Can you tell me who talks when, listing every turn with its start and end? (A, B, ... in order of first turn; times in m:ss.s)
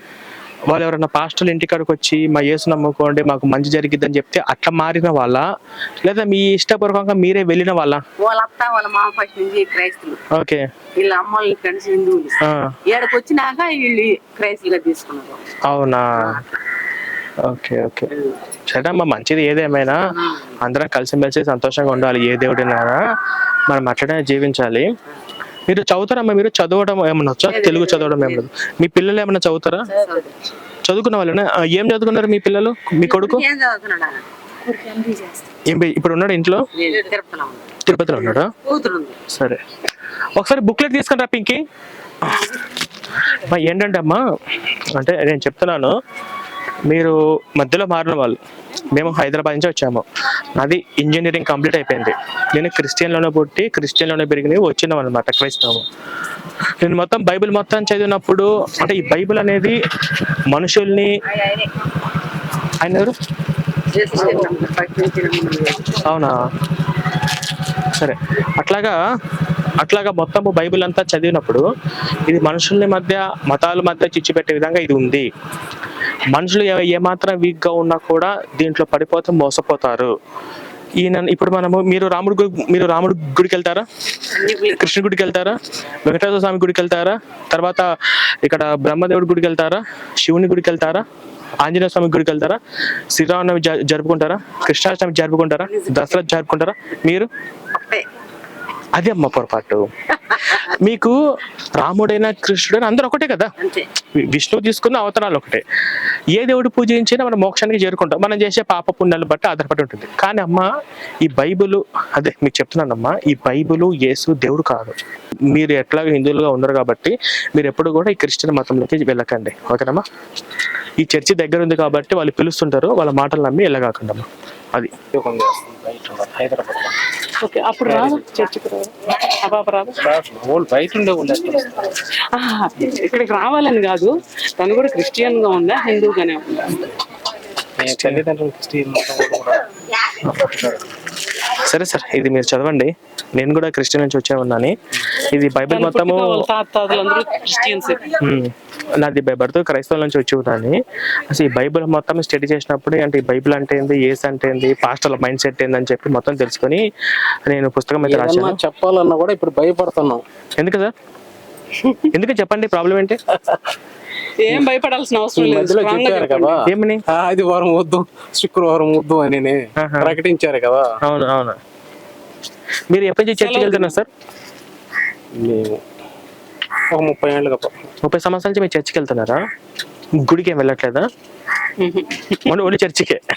0:00.7-0:05.5 A
0:06.0-0:08.0 A
0:09.1-0:10.1 B
0:10.3-0:10.6 A
0:11.0-0:12.3 B
0:12.4-0:12.8 A
0:12.9-0:13.8 B
0:14.4-0:15.3 B
0:15.7-0:16.4 A
0:17.4-0:18.1 A
0:18.7-0:20.0 A
0:20.6-0:23.0 A
0:23.7-0:24.9 A
0:25.7-0:29.9 A
0:30.0-0:30.3 B
0:30.8-0:33.4 A
0:35.7-0:36.7 A
0:37.8-0:38.5 A
0:39.3-0:39.6 A
0:40.4-0:41.6 A
0:43.4-0:44.2 A
0:45.0-0:45.9 A
0:46.9-0:55.8 A
0:56.8-0:59.8 A
1:00.5-1:01.1 A
1:02.8-1:03.2 A
1:04.0-1:06.0 B
1:06.0-1:06.4 A
1:07.9-1:09.0 A
1:09.8-1:11.6 A
1:12.3-1:15.3 A
1:16.3-1:20.1 A
1:21.0-1:23.9 A
1:24.8-1:27.9 A
1:28.4-1:31.1 A
1:31.6-1:32.6 A
1:33.1-1:37.3 A
1:39.0-1:41.2 A
1:41.8-1:43.5 A
1:44.2-1:45.6 A
1:46.3-1:50.7 A
1:51.2-1:55.0 A
1:55.5-2:00.0 A
2:01.0-2:04.9 A
2:05.1-2:07.0 C
2:07.4-2:10.1 D
2:07.8-2:08.2 C
2:10.0-2:11.9 C
2:12.3-2:16.9 D
2:17.8-2:19.6 C
2:17.9-2:18.2 A
2:20.3-2:20.6 A
2:21.5-2:26.4 A
2:25.7-2:28.1 D
2:28.2-2:36.8 A
2:37.5-2:38.6 A
2:38.0-2:40.2 C
2:40.6-2:40.9 A
2:42.1-2:43.2 A
2:44.4-2:46.6 D
2:45.4-2:50.8 C
2:46.7-2:47.0 A
2:49.8-2:50.2 A
2:51.0-2:51.6 A
2:52.9-2:54.1 A
2:53.4-2:54.0 D
2:55.3-2:55.8 C
2:56.9-2:57.9 C
2:58.0-2:59.4 A
3:00.2-3:01.1 A
3:01.8-3:02.4 D
3:02.4-3:03.2 A